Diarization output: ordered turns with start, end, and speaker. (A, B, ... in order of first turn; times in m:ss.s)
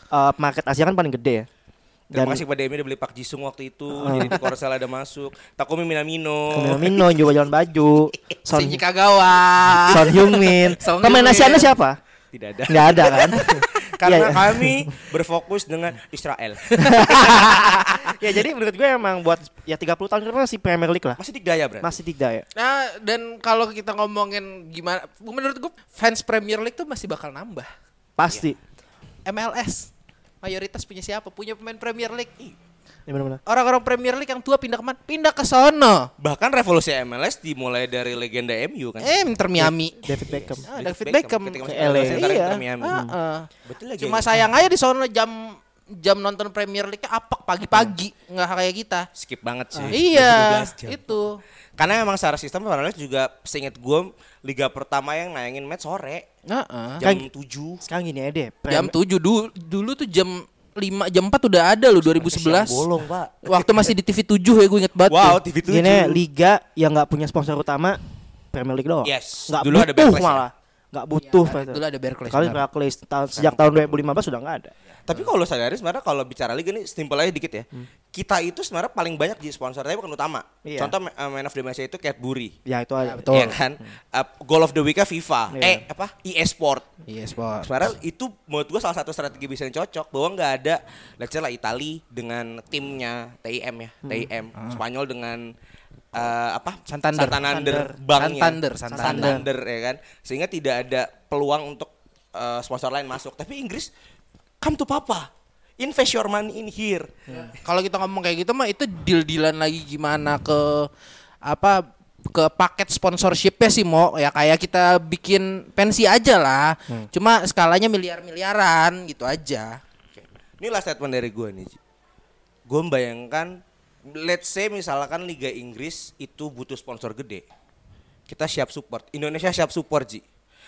0:00.1-0:01.5 A
0:02.1-0:06.9 B
0:02.1-0:02.4 A
0:03.9-0:04.4 A
0:06.5-0:08.8 A
0:08.5-0:11.7 C
0:09.9-0:12.0 A
0:12.3-0:18.1 B
0:12.7-0:14.9 A
0:16.8-0:17.8 C
0:16.8-0:21.2 A
0:21.2-0:21.9 B
0:21.8-0:22.4 A
0:22.6-0:27.7 C
0:28.2-0:28.6 A
0:29.3-0:29.9 C
0:30.4-0:32.3 C
0:33.1-0:33.4 A
0:33.4-0:36.1 C
0:36.2-0:39.1 B
0:39.0-0:49.1 C
0:39.6-0:40.6 A
0:40.3-0:43.0 B
0:41.6-0:42.3 A
0:43.6-0:44.4 B
0:49.2-0:51.0 B
0:49.9-0:51.4 C
0:51.8-0:56.3 B
0:56.5-0:57.0 C
0:57.0-0:57.8 B
0:57.0-0:57.3 A
0:57.9-0:58.9 A
0:58.7-1:02.9 C
1:02.0-1:03.9 B
1:03.4-1:05.4 C
1:05.1-1:06.2 B
1:05.7-1:08.0 A
1:08.5-1:14.7 A
1:09.0-1:10.4 B
1:11.2-1:12.6 C
1:13.4-1:14.0 B
1:15.1-1:22.6 B
1:20.6-1:20.9 A
1:22.6-1:23.6 A
1:23.0-1:23.6 C
1:23.3-1:26.9 B
1:25.5-1:25.8 A
1:27.1-1:27.9 C
1:27.6-1:35.5 B
1:36.1-1:43.9 B
1:36.9-1:37.4 C
1:37.3-1:38.0 A
1:38.1-1:39.4 C
1:38.9-1:39.4 A
1:44.6-1:47.1 B
1:47.4-1:50.9 C
1:51.4-1:59.8 C
2:00.1-2:01.8 B
2:02.7-2:07.4 B
2:08.3-2:10.2 B